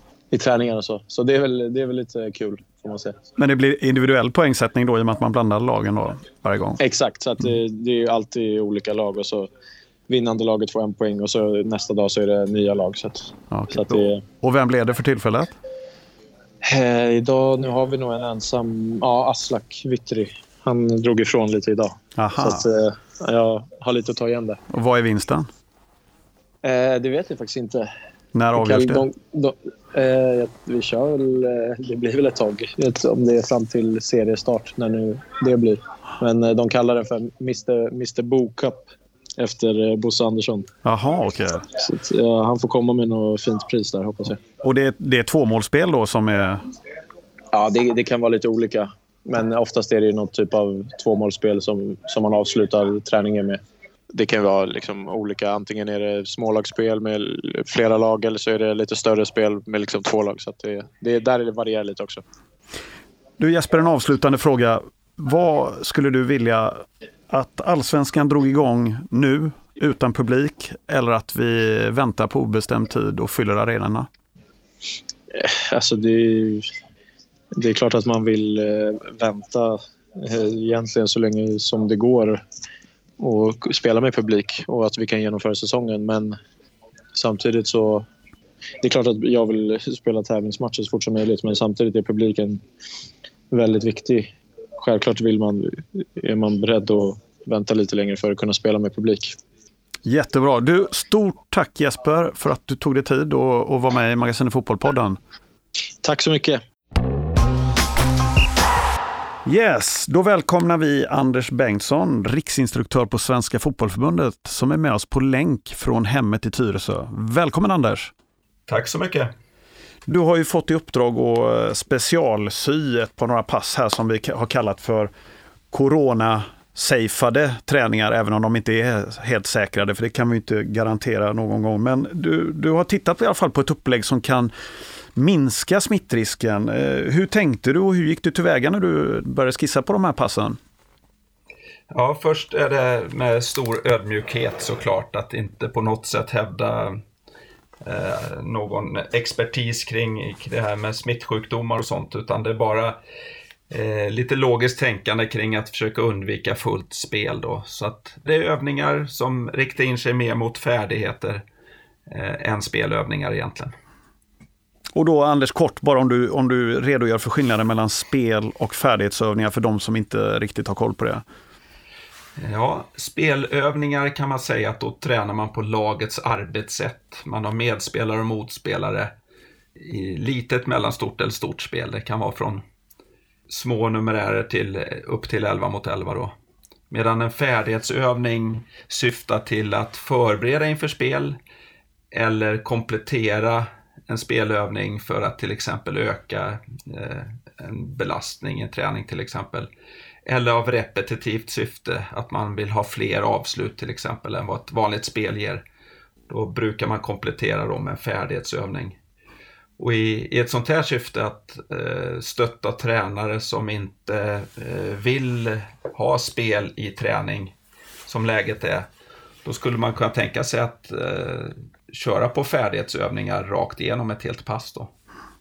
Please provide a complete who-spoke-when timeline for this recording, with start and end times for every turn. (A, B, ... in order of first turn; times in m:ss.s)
0:00.3-0:03.2 A
0:03.4-0:06.8 B
0:06.8-0:09.5 A
0:10.1-0:14.2 A
0:13.5-0:15.6 B
0:16.6-0:24.6 A
0:22.2-0:22.6 B
0:24.7-0:25.5 B
0:26.6-0:27.9 A
0:28.3-0:29.1 B
0:28.5-0:38.9 A
0:39.4-0:40.7 A
0:40.8-0:41.7 B
0:41.8-0:44.4 A
0:44.6-0:46.6 B
0:47.5-0:53.6 A
0:54.1-1:02.2 A
1:03.4-1:14.1 B
1:15.3-1:16.7 A
1:17.6-1:22.4 A
1:23.2-1:26.4 A
1:27.2-1:28.1 A
1:28.8-1:32.6 A
1:33.5-1:39.4 A
1:40.0-1:45.2 B
1:46.0-1:46.6 A
1:49.4-1:58.1 B
1:58.7-1:59.3 C
2:00.1-2:05.1 B
2:05.7-2:14.5 B
2:15.2-2:20.6 B
2:21.9-2:27.0 C
2:27.8-2:33.0 C
2:33.7-2:41.4 C
2:42.1-2:43.7 C
2:45.0-2:51.2 B
2:52.4-2:59.1 C
2:59.8-3:02.6 C
3:03.5-3:06.3 C
3:06.9-3:11.4 C
3:12.1-3:19.7 C
3:20.3-3:25.6 C
3:26.3-3:29.0 C
3:29.8-3:37.5 C
3:38.1-3:38.9 C
3:39.4-3:44.9 C